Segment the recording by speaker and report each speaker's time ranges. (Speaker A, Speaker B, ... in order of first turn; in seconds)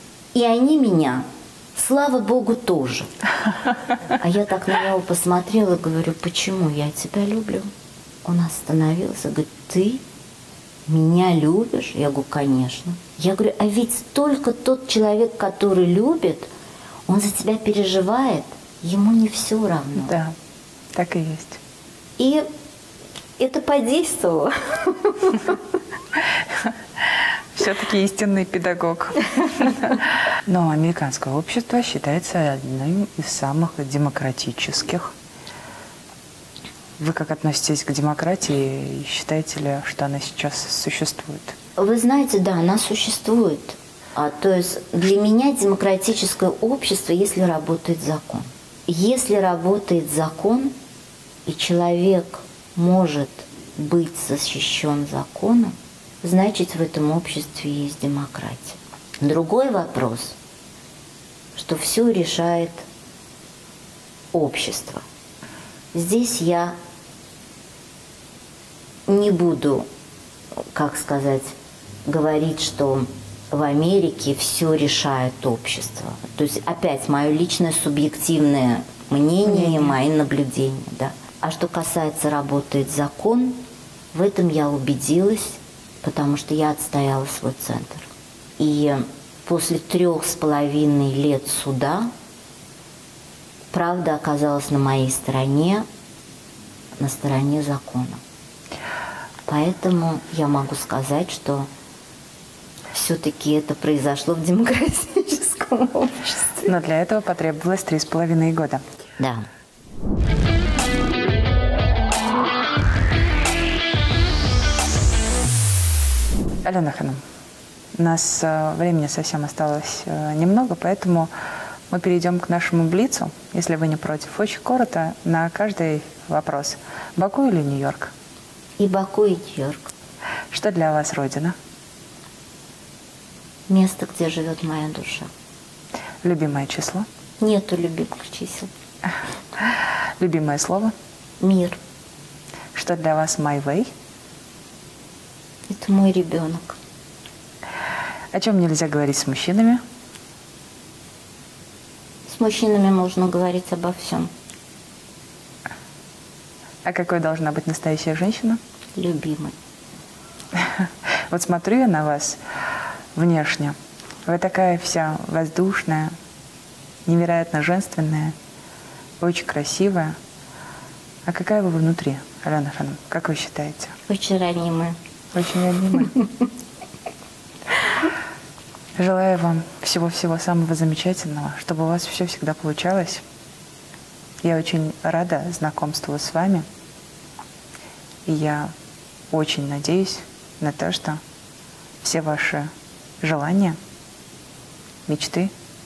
Speaker A: 0.3-3.1, 4.1-7.7, 8.2-10.0, 10.9-16.5, 17.1-20.2, 22.2-22.4, 23.4-25.6, 41.8-50.8, 51.5-60.4, 61.5-62.9, 64.3-65.0, 65.9-66.8, 69.1-69.9, 70.7-83.6, 84.1-88.1, 88.6-92.1, 93.7-95.9, 97.0-98.2, 99.5-101.7, 102.9-106.7, 109.2-109.5, 128.8-129.9, 133.7-135.3, 137.4-138.7, 141.4-141.8, 145.7-146.8, 152.3-154.3, 159.0-159.6, 174.1-175.0
Speaker B: 20.0-20.4, 20.9-21.6, 27.6-35.1, 37.0-41.5, 79.5-80.0, 106.7-108.8, 116.6-117.2, 118.0-121.3, 121.9-128.1, 130.5-131.6, 136.2-137.1, 139.6-140.9, 142.7-143.9, 148.3-149.8, 156.8-158.6, 160.6-162.4, 163.2-166.1, 167.1-168.3, 169.2-170.2, 171.3-173.9, 175.3-176.2, 179.0-183.2, 184.4-186.7, 188.3-188.7, 189.3-191.2, 192.0-192.7, 193.2-193.8, 195.1-195.5